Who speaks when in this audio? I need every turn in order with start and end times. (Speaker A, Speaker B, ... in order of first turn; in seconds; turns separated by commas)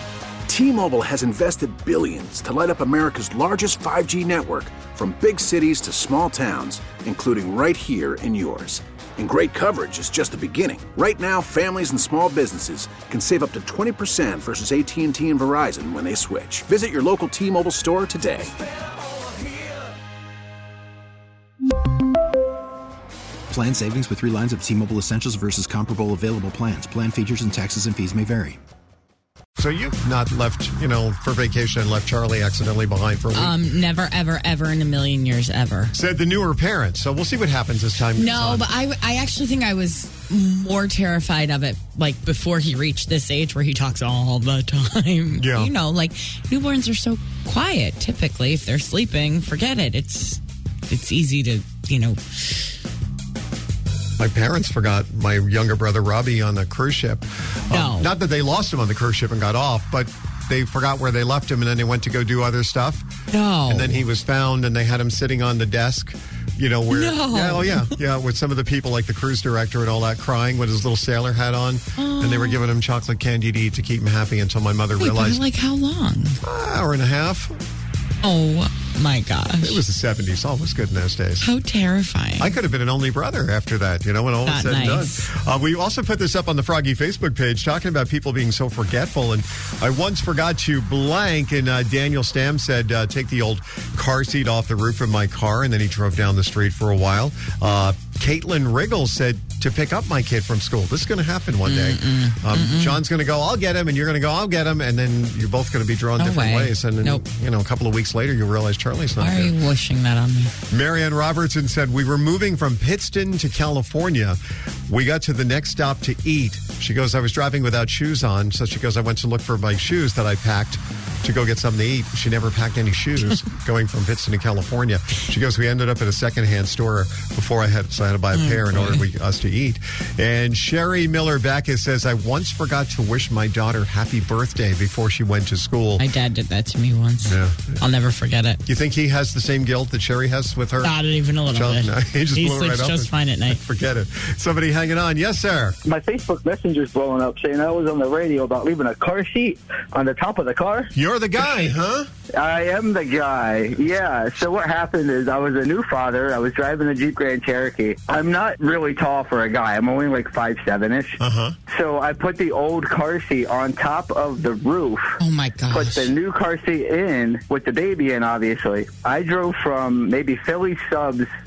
Speaker A: 0.5-18.5, Speaker B: 23.5-28.6, Speaker C: 29.6-33.5, Speaker D: 33.3-35.9, Speaker C: 35.9-38.7, Speaker D: 38.1-52.7, Speaker C: 45.4-45.7, Speaker C: 54.2-63.1, Speaker D: 57.7-58.1, Speaker D: 63.3-64.0, Speaker C: 63.7-75.4, Speaker D: 66.9-67.9, Speaker D: 72.0-72.6, Speaker D: 75.0-76.4, Speaker C: 76.4-77.6, Speaker D: 78.2-79.8, Speaker C: 79.6-81.5, Speaker D: 81.4-82.5, Speaker C: 82.4-109.5, Speaker D: 84.5-85.3, Speaker D: 101.6-103.0, Speaker D: 106.2-107.2, Speaker D: 109.2-110.5, Speaker C: 110.7-136.0, Speaker D: 128.3-129.0, Speaker D: 136.0-138.6, Speaker C: 137.2-137.7, Speaker C: 138.6-145.8, Speaker D: 140.8-143.6, Speaker E: 145.8-150.9, Speaker C: 150.9-152.1, Speaker E: 152.3-161.2, Speaker C: 161.2-161.6, Speaker E: 161.7-165.1, Speaker D: 165.2-166.1, Speaker E: 165.7-171.3